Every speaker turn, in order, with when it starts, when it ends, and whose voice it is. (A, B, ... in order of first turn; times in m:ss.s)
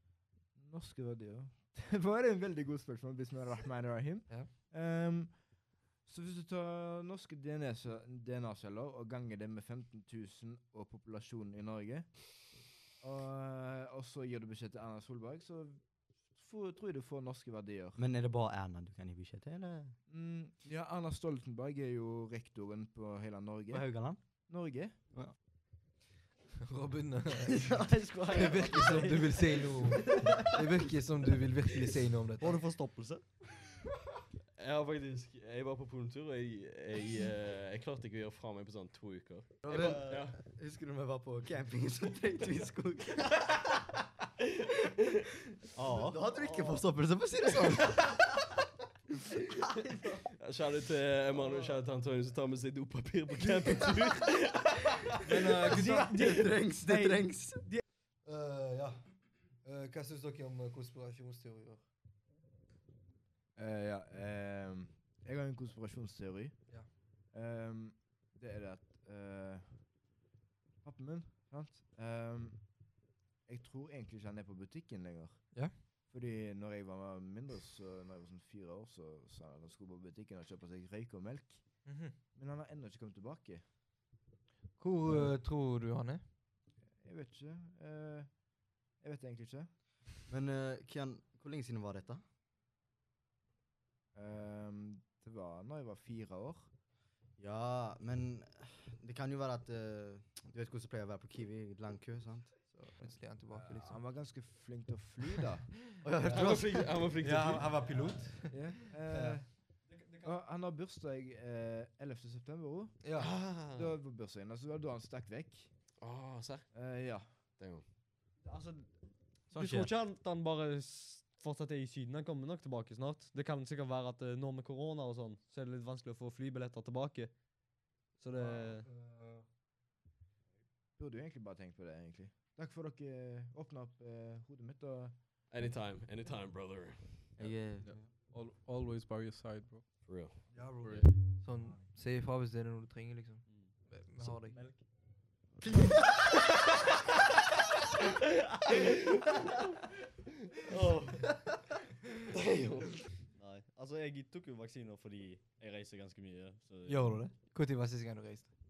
0:00.6-0:05.5 A
0:04.3-0:04.6 B
0:06.0-0:12.1 A
0:13.0-0:18.0 A
0:18.0-0:19.9 C
0:20.1-0:23.9 A
0:23.7-0:24.2 C
0:24.5-0:25.0 A
0:26.6-0:27.8 B
0:27.5-0:30.5 D
0:28.3-0:32.6 B
0:32.4-0:33.2 D
0:34.6-0:40.4 E
0:39.6-0:43.6 C
0:39.7-0:40.2 D
0:45.8-0:46.2 D
0:45.8-0:48.6 C
0:50.2-0:55.1 E
0:55.2-0:56.4 B
0:55.7-0:57.7 C
0:55.9-0:56.3 D
0:56.9-0:57.8 D
0:58.2-0:59.0 B
0:59.6-1:01.8 B
1:03.6-1:06.6 A
1:07.3-1:09.8 A
1:10.8-1:12.7 A
1:13.4-1:15.4 A
1:16.1-1:21.7 A
1:21.8-1:22.2 B
1:22.3-1:23.6 A
1:24.8-1:26.2 B
1:25.1-1:25.3 A
1:27.0-1:28.3 A
1:29.0-1:29.7 A
1:30.3-1:32.2 C
1:34.1-1:36.7 A
1:37.4-1:42.5 C
1:42.7-1:44.0 B
1:43.5-1:45.7 A
1:46.0-1:47.0 C
1:46.2-1:47.8 E
1:47.1-1:49.4 B
1:48.5-1:49.4 A
1:49.9-1:50.4 D
1:50.2-1:53.0 A
1:53.0-1:53.5 B
1:53.2-1:54.0 E
1:53.5-1:55.7 A
1:56.0-1:56.8 E
1:56.7-1:57.3 A
1:57.6-1:57.8 E
1:58.4-1:58.9 D
1:59.5-1:59.9 C
1:59.5-2:07.3 D
2:08.2-2:08.9 D
2:08.5-2:09.4 A
2:11.0-2:15.2 A
2:15.5-2:17.2 E
2:17.4-2:18.1 C
2:17.4-2:19.8 F
2:20.0-2:21.1 E
2:20.5-2:24.6 B
2:20.8-2:21.1 F
2:23.5-2:24.8 D
2:32.3-2:32.9 E
2:33.3-2:37.2 D
2:36.9-2:38.5 B